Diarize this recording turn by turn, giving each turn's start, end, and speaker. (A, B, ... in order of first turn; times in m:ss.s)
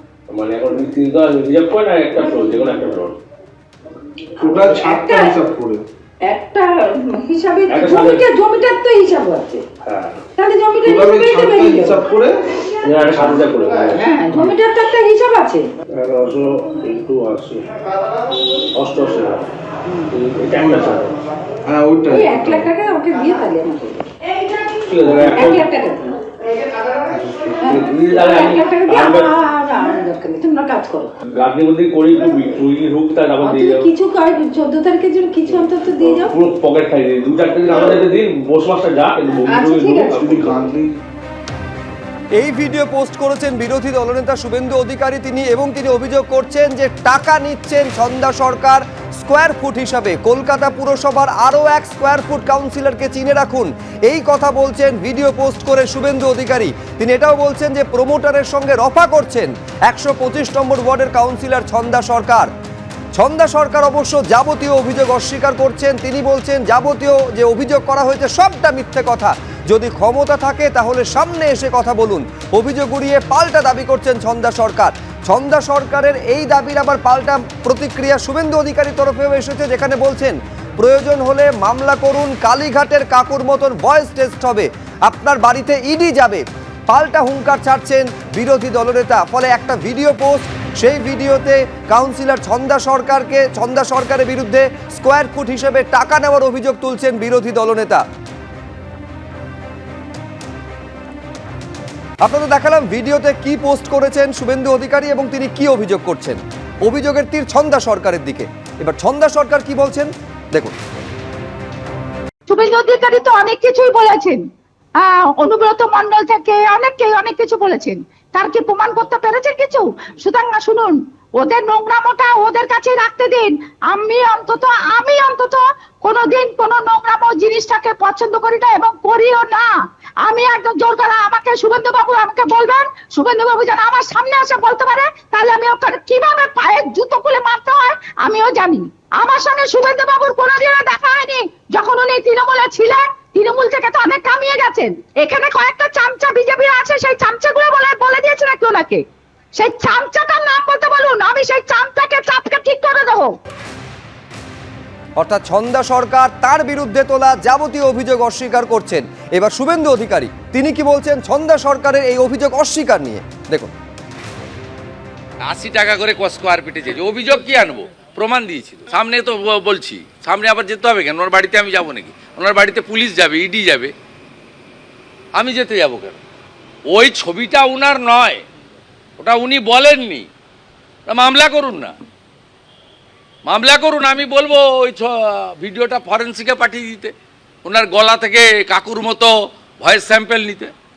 0:00.3-0:03.2 A
0:04.4-0:05.4 B
0:04.4-0:05.8 C
0:06.3-0:09.6 B
0:07.7-0:08.2 A
0:09.8-0:10.2 A
0:10.4-0:12.0 B
0:10.8-0:12.4 C
0:12.8-0:14.0 A
0:13.1-0:13.4 C
0:14.0-0:15.6 B
0:15.9-0:17.7 A
0:18.7-0:19.5 A
0:19.8-0:20.1 B
0:20.1-0:21.1 A
0:20.6-0:20.8 C
0:21.6-0:22.7 C
0:22.1-0:24.0 B
0:24.9-0:25.6 A
0:25.3-0:26.2 B
0:27.1-0:27.6 C
0:27.6-0:31.1 B
0:27.6-0:29.3 A
0:31.2-0:33.9 A
0:33.4-0:36.4 B
0:35.4-0:40.6 A
0:39.5-0:40.3 B
0:40.1-0:40.9 C
0:42.4-1:02.5 D
1:03.1-1:38.0 D
1:42.2-1:50.7 D
1:52.5-1:54.4 E
1:55.0-2:09.7 E
2:10.2-2:29.0 E
2:29.5-2:33.3 E
2:35.2-2:43.7 D
2:45.4-2:53.9 F
2:55.3-2:56.2 F
2:56.9-2:58.4 F
2:59.2-3:00.3 F
3:01.1-3:01.9 F
3:03.4-3:07.1 F
3:07.6-3:10.7 F